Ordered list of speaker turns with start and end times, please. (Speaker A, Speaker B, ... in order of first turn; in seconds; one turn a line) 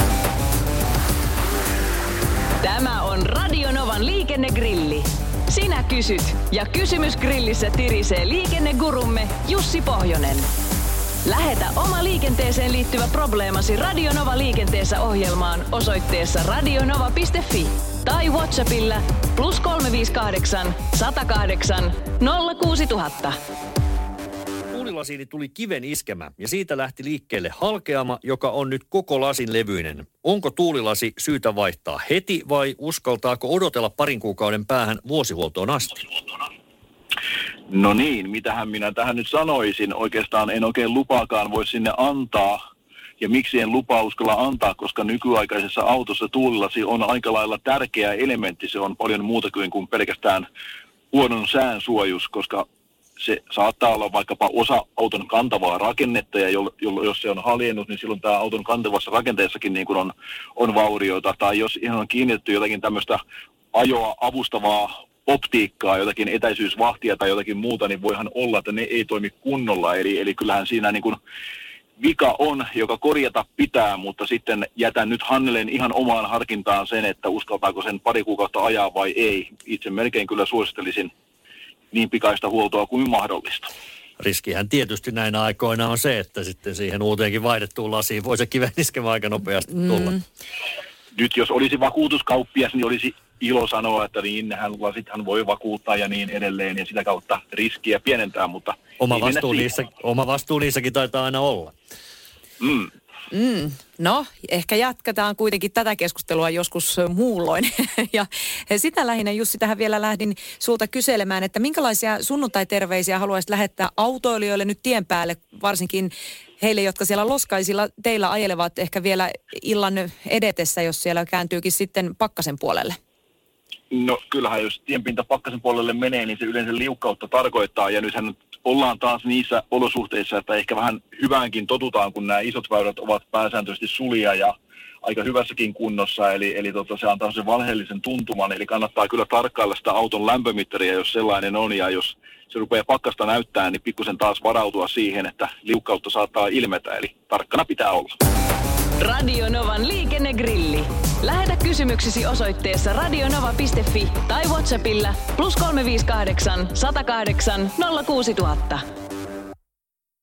Speaker A: 2.6-10.5
Speaker A: 11.2-23.4
Speaker B: 24.7-36.0
Speaker C: 37.7-42.5
Speaker C: 43.2-50.5
Speaker C: 51.1-52.6
Speaker C: 53.2-63.2
Speaker C: 63.7-71.2
Speaker C: 72.0-81.1
Speaker C: 81.9-83.7
Speaker B: 84.2-90.2
Speaker C: 91.1-99.6
Speaker B: 99.0-101.7
Speaker C: 102.6-102.9
Speaker D: 103.3-123.0
Speaker C: 123.9-148.1
Speaker A: 149.0-158.8